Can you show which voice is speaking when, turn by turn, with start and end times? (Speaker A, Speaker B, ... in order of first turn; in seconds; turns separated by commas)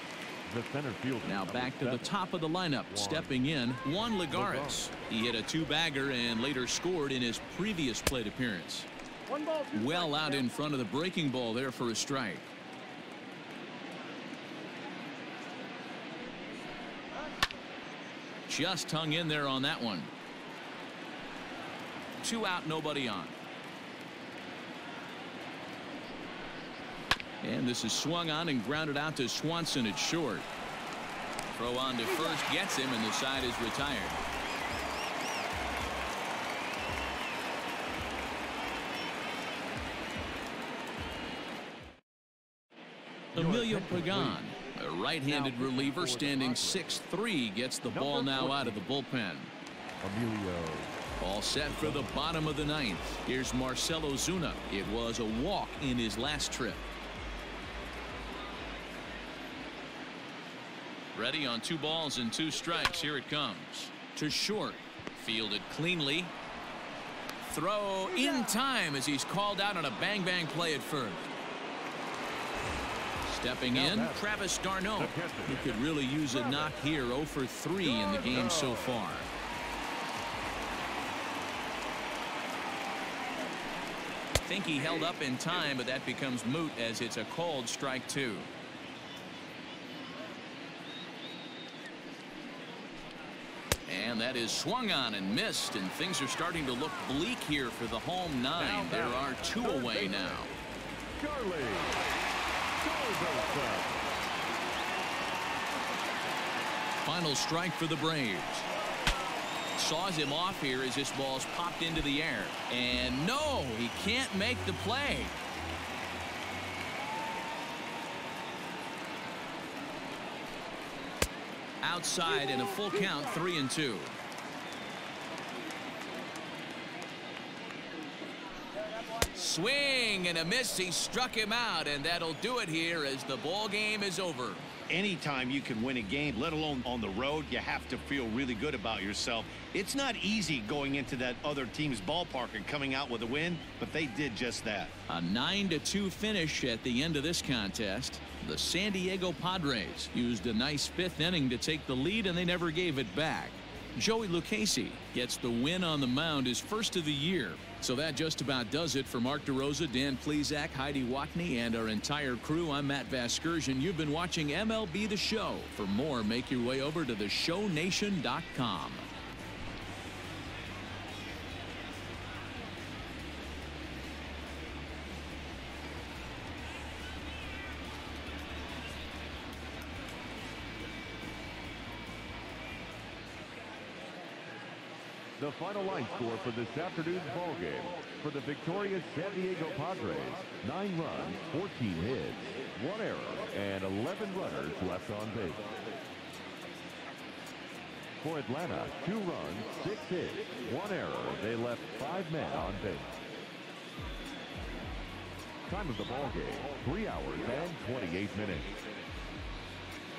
Speaker A: 0.5-2.2, Speaker B: 1.2-8.9, Speaker A: 2.9-3.4, Speaker A: 4.3-4.9, Speaker C: 9.3-10.5, Speaker B: 9.7-12.5, Speaker B: 18.5-20.1, Speaker B: 22.2-23.4, Speaker B: 27.4-30.5, Speaker B: 31.5-34.2, Speaker A: 43.3-44.4, Speaker B: 43.4-49.5, Speaker A: 45.2-47.0, Speaker A: 47.9-48.9, Speaker A: 50.0-51.0, Speaker B: 51.2-56.9, Speaker A: 51.7-52.1, Speaker B: 61.1-66.3, Speaker B: 67.4-71.3, Speaker C: 68.2-68.6, Speaker B: 73.2-79.3, Speaker A: 73.7-74.3, Speaker A: 75.0-75.8, Speaker A: 77.8-79.0, Speaker B: 84.4-88.5, Speaker B: 93.9-100.5, Speaker A: 98.6-100.4, Speaker A: 101.2-102.0, Speaker A: 102.8-104.1, Speaker B: 107.0-108.7, Speaker B: 109.8-115.4, Speaker B: 121.8-124.2, Speaker C: 122.5-123.1, Speaker B: 129.2-134.7, Speaker D: 134.9-144.9, Speaker B: 145.1-169.1, Speaker A: 185.4-195.6, Speaker A: 198.2-203.1, Speaker A: 205.7-208.7